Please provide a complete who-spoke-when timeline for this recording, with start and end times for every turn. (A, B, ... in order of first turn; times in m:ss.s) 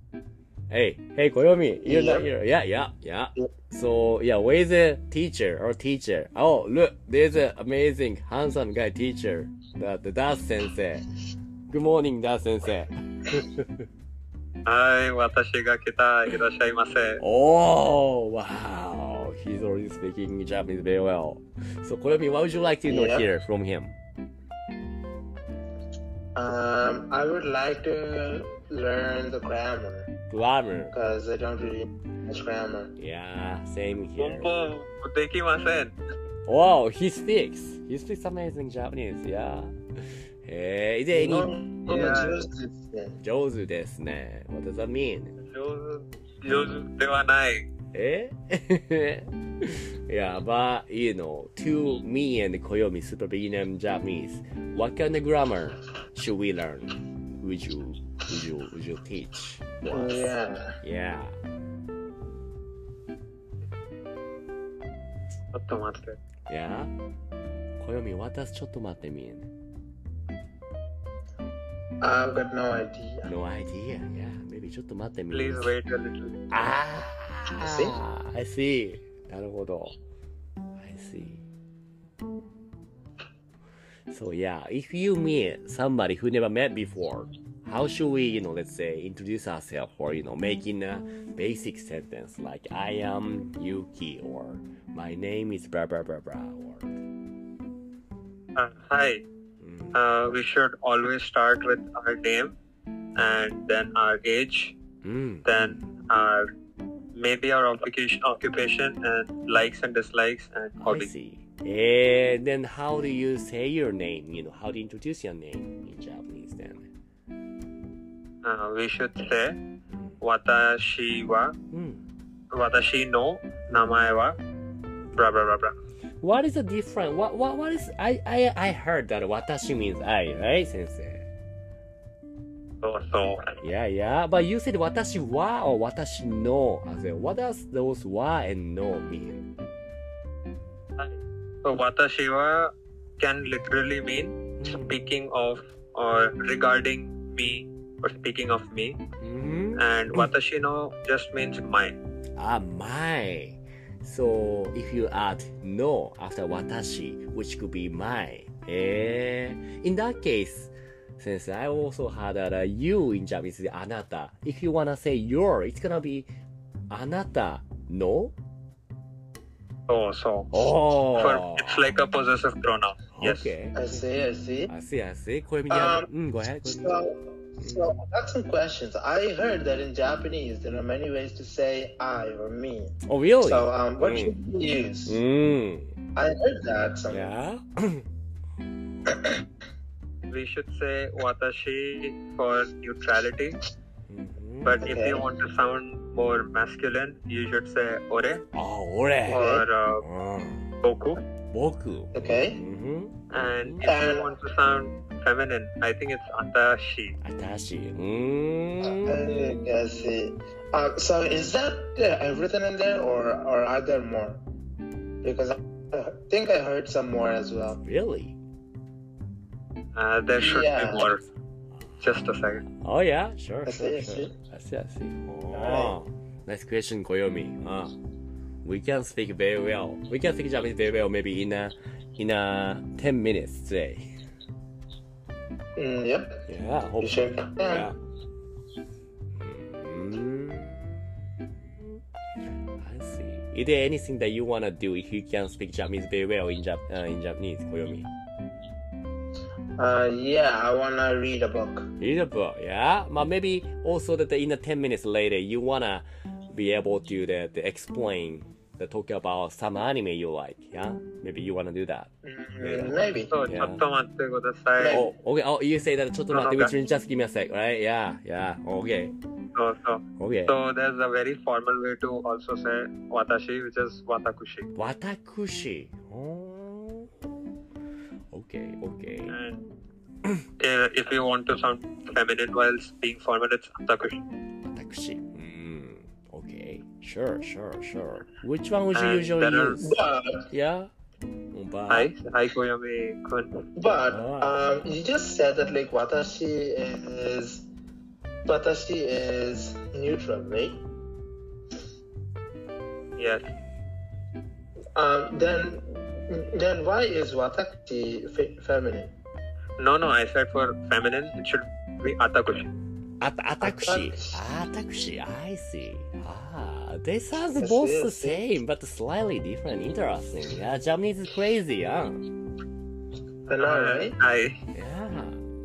0:00.7-0:11.1 A
0:01.8-0:02.3 B
0:11.7-0:13.8 A
0:14.6-0:17.2 C
0:17.2-0:23.9 A
0:22.8-0:23.3 B
0:26.3-0:30.1 B
0:30.3-0:31.0 A
0:30.9-0:32.9 B
0:33.0-0:34.5 A
0:34.2-0:35.9 C
0:36.4-0:39.7 A
0:40.4-0:42.2 A
0:41.1-0:43.2 B
0:41.9-0:42.4 C
0:43.2-0:45.3 A
0:45.4-0:47.6 C
0:47.9-1:01.4 A
0:59.9-1:00.8 B
1:05.5-1:06.2 C
1:06.5-1:06.9 A
1:07.8-1:09.5 A
1:12.0-1:13.3 B
1:13.2-1:15.7 A
1:15.3-1:16.4 C
1:16.5-1:20.0 A
1:17.5-1:18.0 B
1:20.8-1:21.4 A
1:24.1-1:37.0 A
1:38.6-1:39.2 C
1:39.6-1:40.0 A
1:39.9-1:42.5 C
1:43.2-1:44.7 C
1:45.0-1:45.9 A
1:45.4-1:46.4 C
1:47.1-1:51.1 C
1:50.8-1:56.9 A
1:58.4-1:59.6 C
1:59.9-2:00.2 A
2:00.2-2:01.5 C
2:01.7-2:02.0 A
2:02.5-2:04.4 C
2:03.7-2:04.0 A
2:05.1-2:05.7 C
2:06.2-2:11.3 A
2:12.8-2:13.6 C
2:13.6-2:19.5 A
2:21.0-2:29.0 C
2:24.6-2:25.0 A
2:29.2-2:30.3 A
2:29.8-2:32.0 C
2:32.4-2:46.3 A
2:46.9-2:48.3 A
2:49.9-2:50.6 C
2:50.5-2:52.0 A
2:51.1-2:53.5 C
2:53.1-2:54.0 A
2:53.7-2:54.7 B
2:54.7-2:57.0 A
2:55.7-2:56.1 B
2:56.6-3:05.2 B
2:57.6-2:58.0 A
3:03.0-3:04.3 A
3:05.0-3:05.9 A
3:06.1-3:07.3 B
3:07.1-3:08.0 A
3:10.3-3:13.6 C
3:14.1-3:14.9 A
3:14.6-3:18.4 C
3:14.8-3:15.3 B
3:18.5-3:20.7 A
3:19.3-3:19.6 B
3:19.3-3:20.0 C
3:20.8-3:21.2 C
3:21.5-3:23.9 A
3:22.1-3:22.6 B
3:23.3-3:27.2 C
3:23.8-3:24.3 B
3:27.2-3:29.3 A
3:28.9-3:34.4 B
3:35.2-3:37.8 B
3:37.8-3:38.4 A
3:40.0-3:41.2 C
3:40.4-3:41.1 B
3:42.0-3:42.6 C
3:42.7-3:47.9 A
3:43.6-3:44.3 B
3:45.5-3:46.0 B
3:48.6-3:54.0 A
3:55.8-3:56.4 B
3:56.5-3:57.9 A
3:57.0-3:57.9 B
3:59.3-4:01.1 A
4:02.8-4:08.1 A
4:09.8-4:11.9 B
4:12.0-4:22.1 A
4:22.2-4:23.3 B
4:22.6-4:23.8 A
4:23.3-4:25.0 C
4:24.8-4:25.1 B
4:24.9-4:29.1 A
4:26.3-4:26.7 C
4:29.5-4:34.7 C
4:30.2-4:30.6 A
4:34.8-4:37.1 A
4:38.3-4:39.3 A
4:39.3-4:39.6 C
4:40.6-4:44.2 C
4:44.6-4:49.9 A
4:48.9-4:49.9 C
4:49.8-4:50.5 B
4:50.5-4:50.9 A
4:51.5-4:52.1 A
4:51.9-4:53.6 C
4:53.8-4:57.6 B
4:54.1-4:54.6 A
4:58.4-5:00.8 B
5:03.2-5:03.4 C
5:05.0-5:09.1 B
5:09.8-5:12.7 C
5:13.2-5:22.2 A
5:13.6-5:14.3 B
5:17.6-5:18.4 B
5:23.5-5:24.6 C
5:23.5-5:24.2 B
5:24.7-5:25.4 A